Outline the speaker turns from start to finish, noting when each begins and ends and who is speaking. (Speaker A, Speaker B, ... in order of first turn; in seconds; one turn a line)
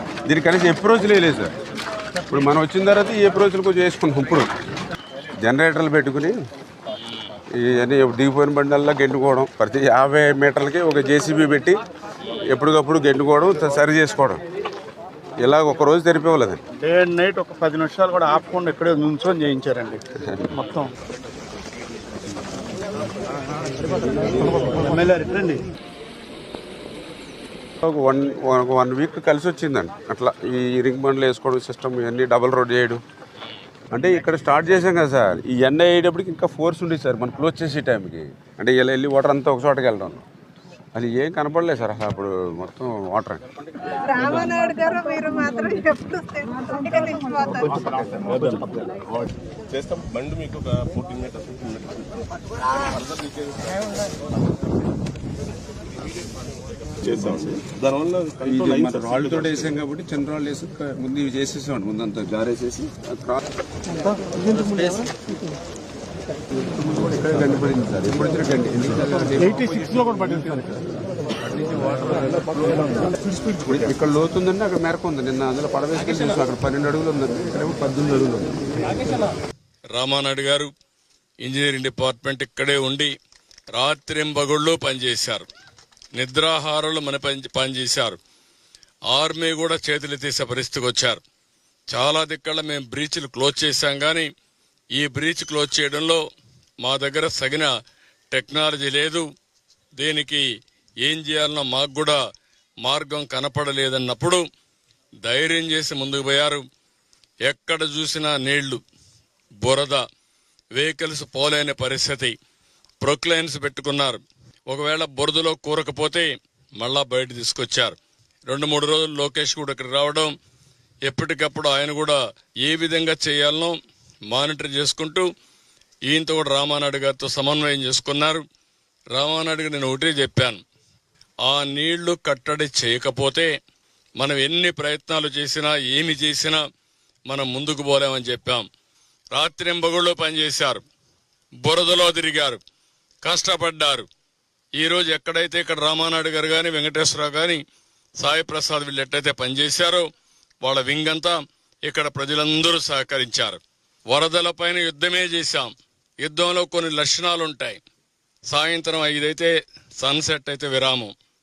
Speaker A: 0.3-1.5
Speaker A: 2.3-4.5
Speaker A: 5.4-6.3
Speaker A: 7.6-11.8
Speaker A: 12.5-14.4
Speaker A: 15.4-16.6
Speaker B: 16.8-20.0
Speaker B: 20.5-20.9
Speaker B: 24.7-25.6
Speaker A: 27.8-33.0
Speaker A: 33.9-40.2
Speaker A: 41.0-43.4
Speaker C: 44.1-47.9
Speaker D: 48.1-49.0
Speaker D: 49.7-52.1
Speaker D: 52.8-53.7
Speaker D: 57.0-59.7
Speaker A: 58.4-63.4
Speaker A: 67.1-70.8
Speaker A: 73.6-78.5
Speaker E: 79.9-80.7
Speaker E: 81.4-83.1
Speaker E: 83.7-85.5
Speaker E: 86.2-88.2
Speaker E: 89.1-91.2
Speaker E: 91.9-94.3
Speaker E: 95.0-96.2
Speaker E: 96.8-97.7
Speaker E: 98.3-99.3
Speaker E: 100.0-100.5
Speaker E: 101.0-102.2
Speaker E: 102.8-104.5
Speaker E: 105.2-106.7
Speaker E: 107.5-108.8
Speaker E: 109.6-110.0
Speaker E: 110.8-112.3
Speaker E: 113.0-116.3
Speaker E: 116.8-118.0
Speaker E: 118.5-120.3
Speaker E: 121.1-123.8
Speaker E: 124.3-125.3
Speaker E: 126.1-128.4
Speaker E: 129.1-130.6
Speaker E: 131.4-133.5
Speaker E: 134.2-136.6
Speaker E: 137.3-138.7
Speaker E: 139.3-140.8
Speaker E: 141.6-142.6
Speaker E: 143.2-144.1
Speaker E: 144.8-147.6
Speaker E: 148.2-150.1
Speaker E: 150.6-157.8
Speaker E: 158.5-161.1